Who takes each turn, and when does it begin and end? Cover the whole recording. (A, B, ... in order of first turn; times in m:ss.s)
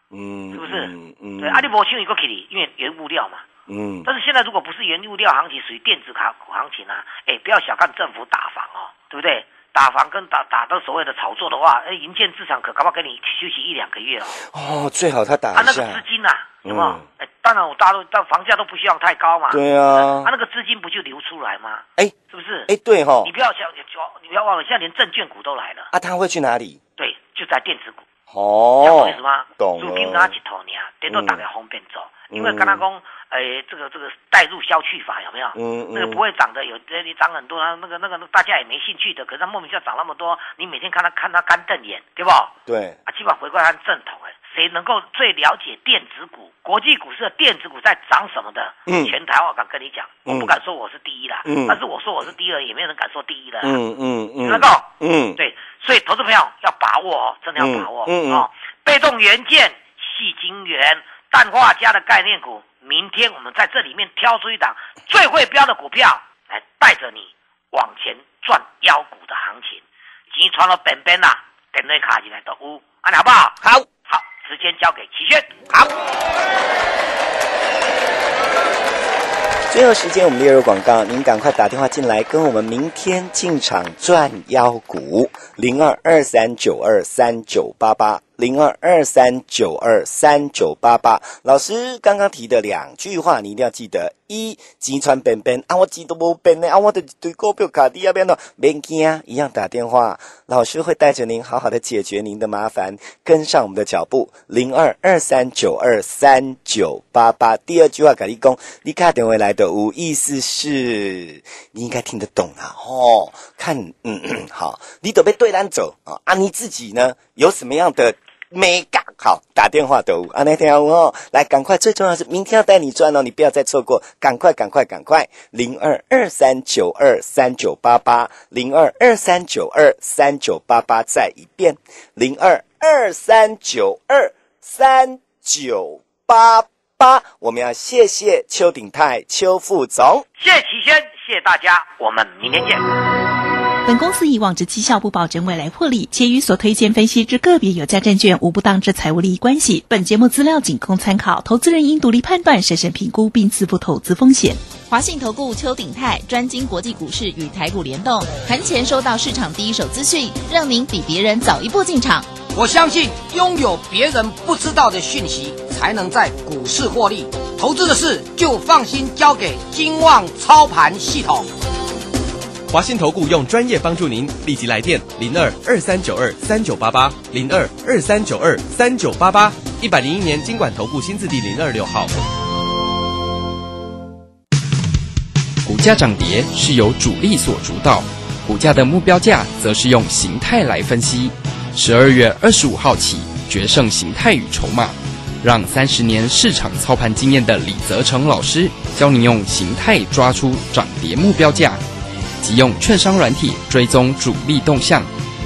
0:00.1-0:01.7 A
0:00.5-0:03.4 B
0:03.7-0:04.1 A
0:04.0-0:14.4 B
0:14.4-0:16.0 A
0:15.5-0:22.7 B
0:16.6-0:17.0 A
0:19.5-0:20.3 A
0:22.7-0:23.3 A
0:23.2-0:25.9 B
0:25.9-0:26.8 A
0:27.0-0:28.0 B
0:28.3-0:30.3 A
0:28.8-0:42.5 B
0:31.1-0:31.4 A
0:32.3-0:32.8 A
0:35.5-0:36.2 A
0:42.7-0:43.0 A
0:43.0-0:53.8 B
0:48.9-0:49.1 A
0:50.2-0:50.5 A
0:51.4-0:51.8 A
0:53.6-0:55.4 A
0:54.4-1:15.6 B
0:57.6-0:58.5 A
1:19.7-2:20.2 A
2:20.4-2:22.8 B
2:23.8-2:34.6 C
2:34.8-2:42.3 D
2:42.5-2:51.5 E
2:52.7-3:02.1 F
3:05.6-3:21.8 G
3:22.4-3:25.1 G